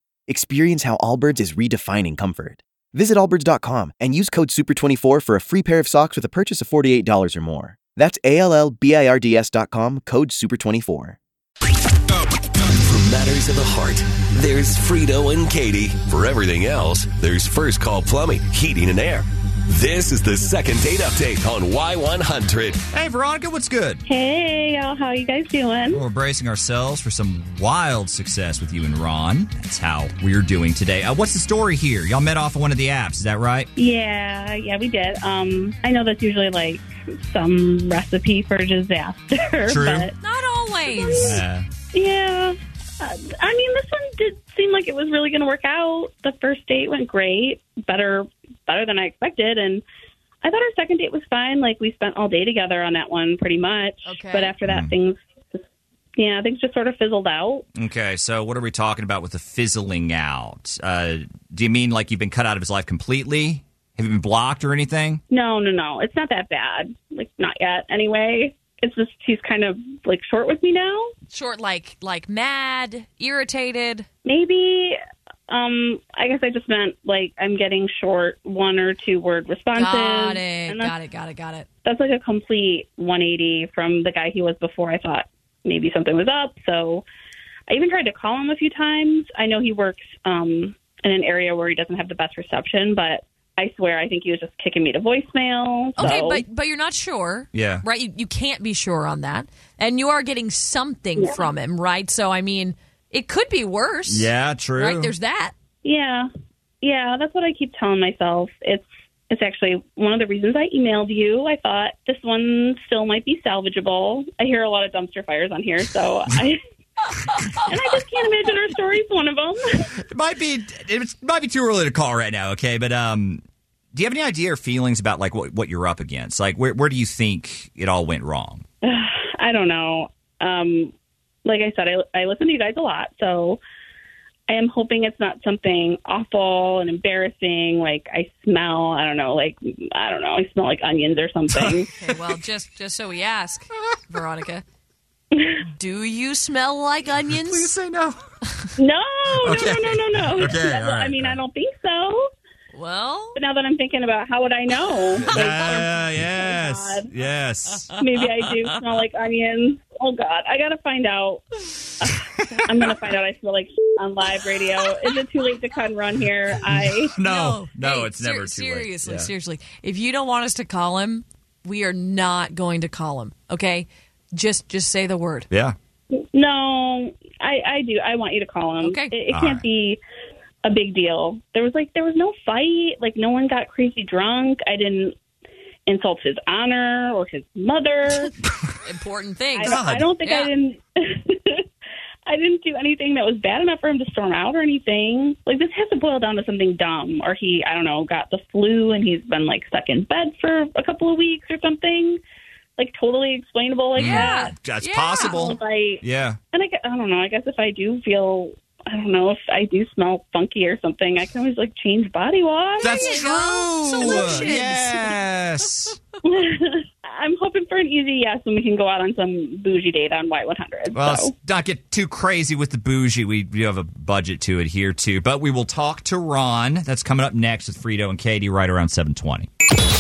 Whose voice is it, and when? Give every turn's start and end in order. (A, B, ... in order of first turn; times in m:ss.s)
0:00.3-0:11.2 A
0:12.1-0:22.8 B
0:22.9-0:24.0 C
0:24.0-0:26.0 D
0:25.9-0:33.7 C
0:33.8-0:40.1 D
0:39.7-0:40.1 C
0:40.2-0:41.4 E
0:40.9-0:49.8 D
0:41.2-0:41.7 C
0:50.4-0:55.2 D
0:54.0-0:54.6 E
0:54.7-0:54.9 C
0:56.2-0:57.6 D
0:57.8-1:05.2 C
1:05.3-1:11.1 D
1:11.3-1:14.1 E
1:14.2-1:15.0 D
1:15.5-1:20.9 D
1:19.7-1:21.7 E
1:21.8-1:27.0 D
1:27.7-1:36.4 D
1:36.0-1:45.5 E
1:37.5-1:37.8 C
1:44.1-1:45.1 C
1:45.8-1:46.3 D
1:46.8-1:56.6 D
1:57.3-1:57.7 C
1:57.7-1:59.9 D
2:00.1-2:03.4 C
2:03.9-2:08.6 C
2:08.8-2:10.9 D
2:11.4-2:13.6 D
2:14.5-2:21.9 D
2:21.5-2:22.2 C
2:22.0-2:24.6 E
2:25.3-2:25.6 D
2:25.7-2:27.7 E
2:27.3-2:28.2 C
2:28.8-2:32.2 D
2:29.4-2:31.4 C
2:32.7-2:33.4 E
2:33.4-2:37.1 D
2:35.2-2:38.8 C
2:35.3-2:35.8 E
2:38.0-2:41.4 D
2:42.0-2:47.1 D
2:42.0-2:42.7 C
2:47.1-2:49.3 C
2:47.2-2:55.5 E
2:55.5-2:55.8 C
2:56.3-3:00.0 D
2:58.8-2:59.2 E
2:59.3-2:59.6 C
3:00.6-3:05.1 D
3:05.9-3:08.3 D
3:08.8-3:10.5 E
3:09.6-3:11.6 D
3:09.7-3:10.1 C
3:12.3-3:22.2 D
3:22.8-3:24.5 D
3:24.0-3:26.4 C
3:24.0-3:25.4 E
3:25.2-3:33.2 D
3:32.8-3:36.0 C
3:32.9-3:35.2 E
3:34.0-3:34.6 D
3:36.2-3:41.3 D
3:40.9-3:49.5 C